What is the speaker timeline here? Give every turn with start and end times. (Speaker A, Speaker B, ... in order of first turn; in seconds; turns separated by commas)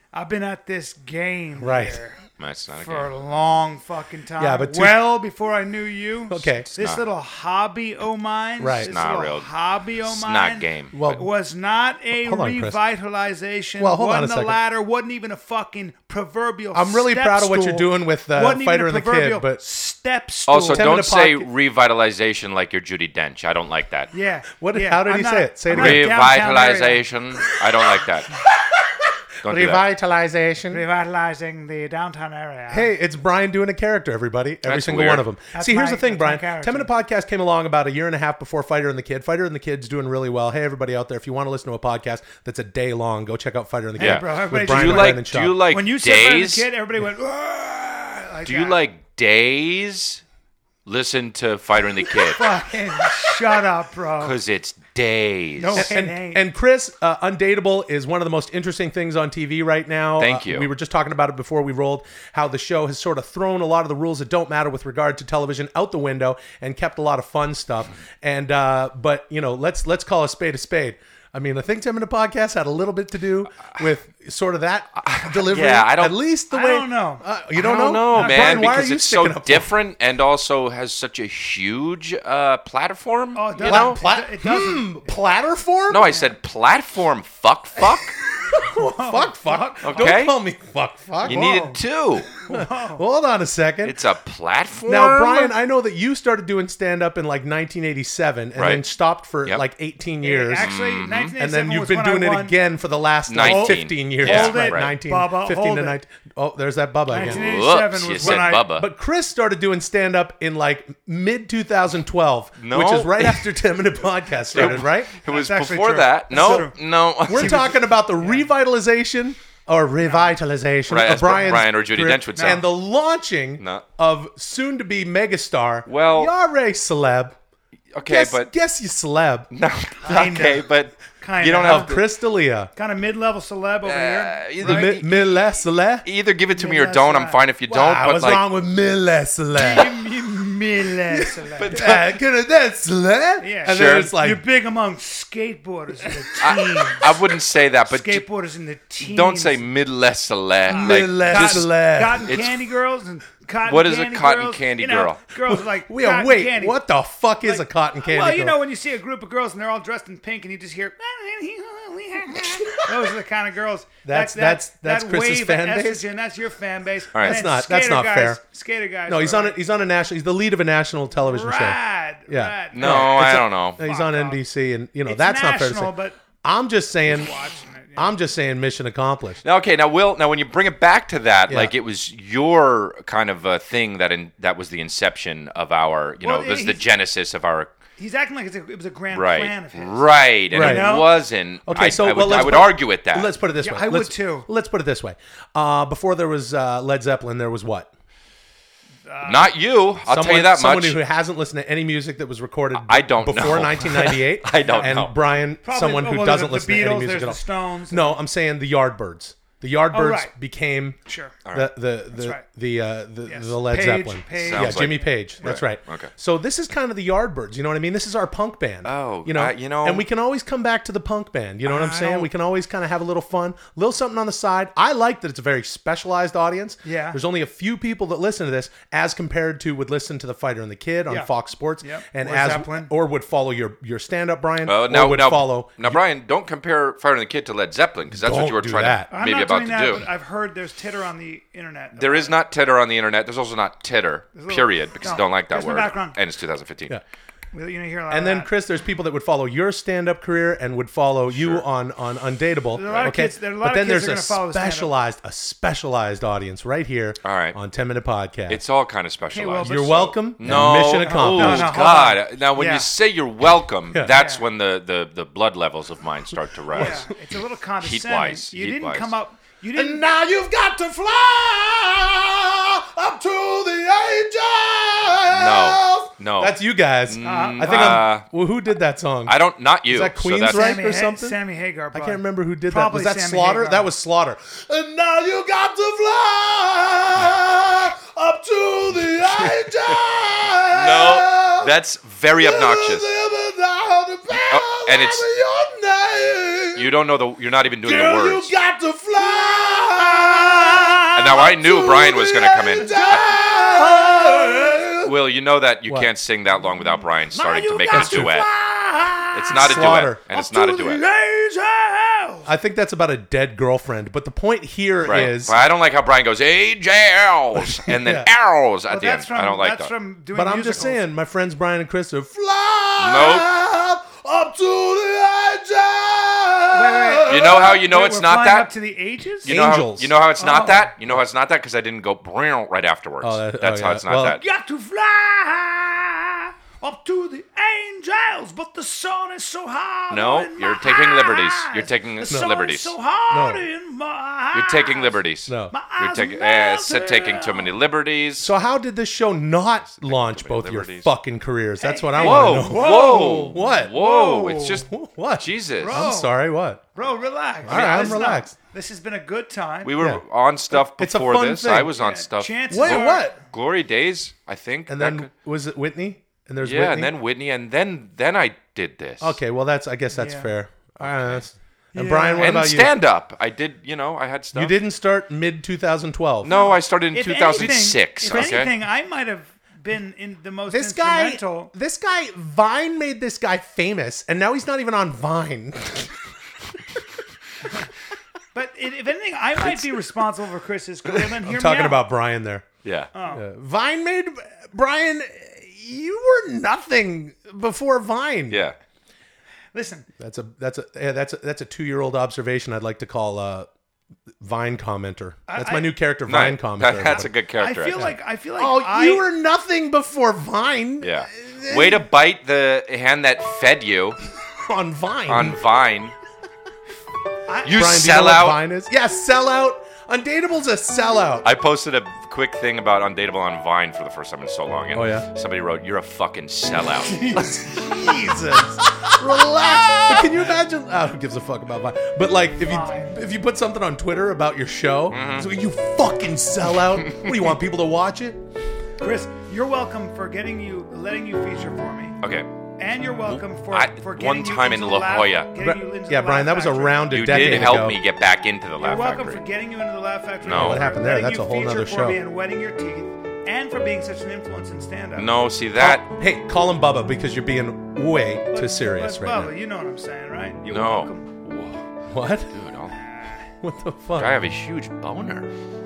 Speaker A: 0.1-2.2, Speaker B: 1.6-2.0, Speaker C: 2.4-3.1, Speaker A: 2.8-21.1, Speaker B: 4.4-5.1, Speaker B: 6.3-6.7, Speaker B: 8.6-9.0, Speaker C: 8.8-9.5, Speaker C: 10.0-11.2, Speaker B: 10.9-11.3, Speaker B: 12.2-12.8, Speaker B: 13.8-14.6, Speaker B: 16.7-19.6, Speaker C: 20.5-24.1, Speaker B: 20.7-21.5, Speaker A: 24.1-27.0, Speaker B: 24.6-26.1, Speaker C: 25.7-28.4, Speaker C: 29.4-29.8, Speaker B: 29.4-30.8, Speaker A: 30.7-32.9, Speaker B: 32.7-45.6, Speaker C: 34.7-35.3, Speaker A: 35.5-36.9, Speaker A: 44.0-48.8, Speaker C: 44.0-46.7, Speaker C: 48.5-50.2, Speaker C: 50.9-52.6, Speaker A: 52.0-54.4, Speaker C: 54.2-55.9, Speaker A: 55.6-56.4, Speaker B: 55.8-79.7, Speaker C: 60.2-60.7, Speaker C: 75.0-76.2, Speaker A: 76.5-77.2, Speaker C: 77.5-84.0, Speaker A: 78.1-78.8, Speaker A: 83.3-85.0, Speaker B: 83.6-86.1, Speaker C: 85.9-88.2, Speaker B: 88.3-91.7, Speaker A: 88.8-90.2, Speaker C: 89.8-90.3, Speaker A: 91.2-93.0, Speaker C: 91.2-92.3, Speaker B: 92.5-94.0, Speaker C: 93.8-95.5, Speaker B: 94.9-100.7, Speaker C: 98.6-98.8, Speaker A: 100.2-102.6, Speaker C: 100.6-101.3, Speaker B: 101.4-107.6, Speaker C: 103.3-104.9, Speaker A: 103.4-106.0, Speaker A: 107.1-108.7, Speaker C: 107.2-108.9, Speaker B: 108.2-115.2, Speaker C: 112.6-113.5, Speaker C: 114.5-117.7, Speaker A: 114.6-116.8, Speaker B: 116.3-116.7, Speaker B: 117.3-127.3, Speaker A: 117.3-118.5, Speaker A: 120.0-120.4, Speaker C: 120.9-122.7, Speaker A: 122.3-122.6, Speaker C: 123.6-123.8, Speaker C: 125.9-126.3, Speaker C: 127.9-128.5, Speaker B: 128.0-129.5, Speaker C: 129.5-132.0, Speaker A: 130.0-132.0, Speaker B: 131.6-132.7, Speaker A: 132.8-135.0, Speaker C: 133.8-135.3, Speaker B: 134.6-136.1, Speaker C: 136.0-138.4, Speaker A: 136.5-137.5, Speaker B: 137.7-140.0, Speaker A: 139.5-142.2, Speaker B: 141.1-144.4, Speaker C: 141.6-141.8, Speaker A: 143.4-149.7, Speaker C: 143.7-144.1, Speaker C: 146.4-148.3, Speaker C: 149.0-151.7, Speaker A: 150.7-156.8, Speaker B: 150.7-152.3, Speaker C: 152.2-152.6, Speaker C: 153.6-155.2, Speaker B: 155.5-158.6, Speaker A: 157.4-169.6, Speaker B: 164.1-166.0, Speaker C: 167.1-167.4, Speaker B: 167.2-168.4, Speaker B: 169.1-177.3, Speaker A: 171.2-174.4, Speaker C: 172.7-173.8, Speaker A: 175.1-176.2, Speaker A: 177.0-178.2, Speaker B: 178.0-179.4, Speaker C: 179.4-187.7, Speaker B: 181.5-181.8, Speaker A: 186.2-186.9, Speaker A: 188.0-191.2, Speaker C: 189.1-193.3, Speaker B: 190.5-191.1, Speaker B: 191.7-197.9, Speaker A: 192.3-192.6, Speaker A: 193.6-194.5, Speaker A: 199.1-199.5, Speaker C: 199.2-201.0, Speaker B: 200.1-211.0, Speaker C: 202.7-205.1, Speaker A: 204.7-205.0, Speaker A: 205.6-208.2, Speaker A: 209.9-210.3, Speaker A: 211.1-211.4, Speaker B: 211.5-236.0, Speaker A: 212.1-212.4, Speaker A: 213.2-215.6, Speaker C: 214.3-216.1, Speaker C: 218.8-220.1, Speaker A: 221.7-222.3, Speaker A: 226.8-227.2, Speaker A: 231.8-232.9, Speaker C: 234.6-240.1, Speaker B: 238.1-239.1, Speaker A: 239.1-242.4, Speaker C: 241.9-247.0, Speaker A: 244.3-246.2, Speaker A: 247.5-248.5, Speaker B: 248.1-258.6, Speaker C: 251.3-251.7, Speaker A: 252.8-254.9, Speaker C: 257.2-257.6, Speaker C: 258.5-259.7, Speaker A: 259.3-262.9, Speaker B: 259.6-261.7, Speaker C: 260.4-267.1, Speaker A: 264.1-264.5, Speaker A: 266.7-270.1, Speaker B: 266.7-267.0, Speaker C: 267.8-269.1, Speaker B: 269.8-281.4, Speaker C: 275.3-278.3, Speaker A: 277.2-278.0, Speaker C: 279.3-280.8, Speaker A: 280.4-283.9, Speaker B: 281.9-291.7, Speaker C: 290.7-293.1, Speaker B: 292.4-296.9, Speaker C: 294.5-295.3, Speaker C: 296.8-298.5, Speaker B: 297.8-305.1, Speaker A: 300.2-301.4, Speaker C: 301.1-303.3, Speaker A: 302.8-304.8, Speaker C: 305.0-308.5, Speaker B: 305.9-306.1, Speaker A: 307.3-312.5, Speaker B: 307.9-308.5, Speaker C: 309.3-311.0, Speaker B: 309.5-310.2, Speaker B: 312.5-315.6, Speaker C: 315.1-319.9, Speaker B: 317.8-318.3, Speaker A: 318.9-321.0, Speaker B: 320.3-327.7, Speaker C: 323.0-323.5, Speaker A: 326.7-329.5, Speaker C: 327.3-328.7, Speaker C: 329.4-334.4, Speaker B: 329.4-330.1, Speaker A: 330.4-330.9, Speaker B: 333.2-334.4, Speaker A: 334.3-347.8, Speaker C: 340.1-342.9, Speaker B: 343.3-343.7, Speaker C: 344.5-348.5, Speaker B: 345.5-345.8, Speaker B: 348.4-353.9, Speaker C: 349.8-351.1, Speaker A: 351.8-354.9, Speaker C: 352.2-356.1, Speaker B: 354.7-356.8, Speaker A: 355.8-356.4, Speaker A: 357.0-360.0, Speaker B: 357.6-358.5, Speaker C: 357.7-358.2, Speaker C: 359.8-365.3, Speaker B: 360.0-361.9, Speaker A: 361.9-363.4, Speaker B: 362.7-363.4, Speaker B: 364.9-367.1, Speaker C: 366.6-369.4, Speaker B: 369.2-372.9, Speaker A: 370.1-370.5, Speaker C: 371.0-371.4, Speaker A: 371.9-372.6, Speaker C: 372.4-374.8, Speaker B: 374.5-376.5, Speaker C: 376.4-378.7, Speaker A: 376.4-381.7, Speaker B: 377.6-378.6, Speaker B: 380.7-386.2, Speaker A: 388.5-392.1, Speaker B: 389.6-390.0, Speaker B: 391.1-392.6, Speaker C: 392.8-393.1, Speaker A: 393.1-393.4, Speaker B: 393.3-398.6, Speaker C: 398.5-398.8, Speaker A: 399.7-400.1, Speaker B: 400.2-403.7, Speaker B: 404.4-407.3, Speaker A: 405.5-406.0, Speaker C: 406.3-408.1, Speaker A: 407.0-409.3, Speaker B: 408.0-412.1, Speaker C: 411.0-414.2, Speaker B: 414.6-415.6, Speaker C: 415.3-416.1, Speaker A: 417.5-417.9, Speaker C: 417.6-418.6, Speaker B: 417.7-421.5, Speaker C: 421.4-428.2, Speaker B: 424.9-425.3, Speaker B: 427.0-438.4, Speaker C: 428.8-430.5, Speaker A: 432.5-433.2, Speaker C: 435.1-435.5, Speaker A: 439.0-442.2, Speaker C: 442.2-442.5, Speaker A: 442.8-447.8, Speaker C: 443.2-445.5, Speaker B: 445.6-448.0, Speaker C: 447.1-449.4, Speaker A: 448.8-455.3, Speaker C: 450.4-450.9, Speaker B: 450.5-452.2, Speaker C: 455.2-456.1, Speaker B: 455.8-459.5, Speaker A: 458.5-461.3, Speaker C: 460.7-461.9, Speaker B: 462.1-462.6, Speaker C: 462.5-462.9, Speaker A: 462.9-463.4, Speaker B: 463.6-464.3, Speaker C: 464.2-465.5